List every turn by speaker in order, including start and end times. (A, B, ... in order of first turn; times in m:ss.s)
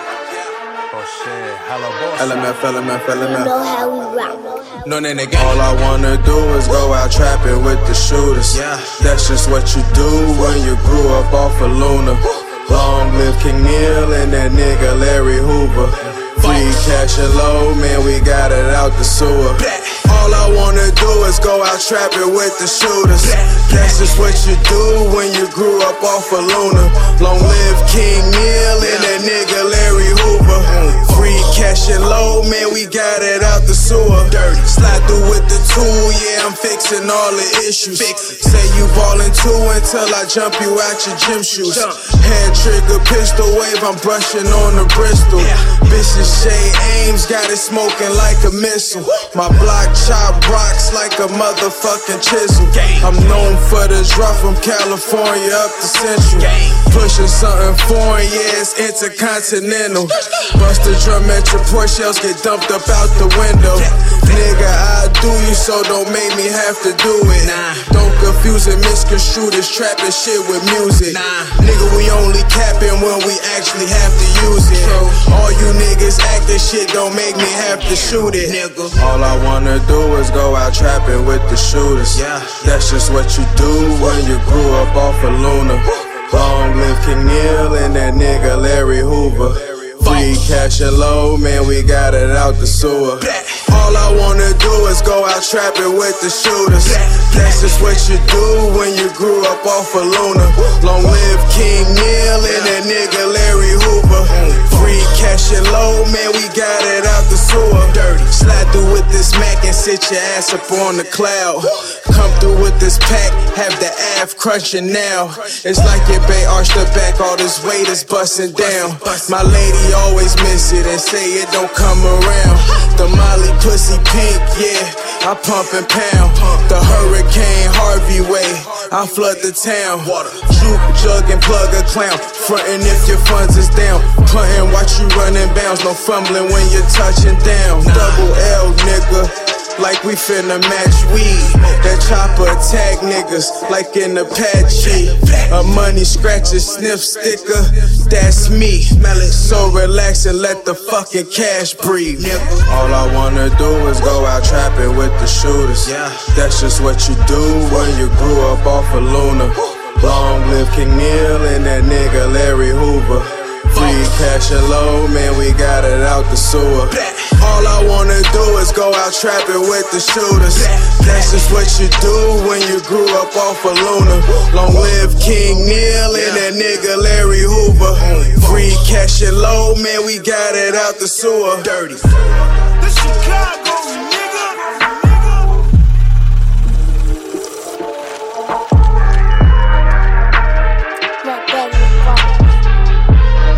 0:00.9-0:02.4 A
0:02.2-0:03.6 B
0:03.2-0:05.2 C
0:04.9-0:05.6 A
0:05.3-3:01.8 B
0:08.5-0:09.1 A
0:19.7-0:19.9 A
0:30.9-0:31.3 A
0:34.4-0:34.7 A
0:56.4-0:56.8 A
1:11.2-1:11.5 A
1:17.9-1:18.9 A
1:22.2-1:22.6 A
1:37.0-1:37.4 A
1:42.4-1:42.7 A
1:44.4-1:44.7 A
1:48.0-1:48.3 A
2:10.2-2:10.5 A
2:32.3-2:32.6 A
2:35.8-2:36.3 A
2:50.8-2:51.4 A
2:56.1-2:56.4 A
2:58.2-2:58.4 A
3:01.7-3:02.2 A
3:02.8-3:05.6 D
3:11.2-3:12.4 C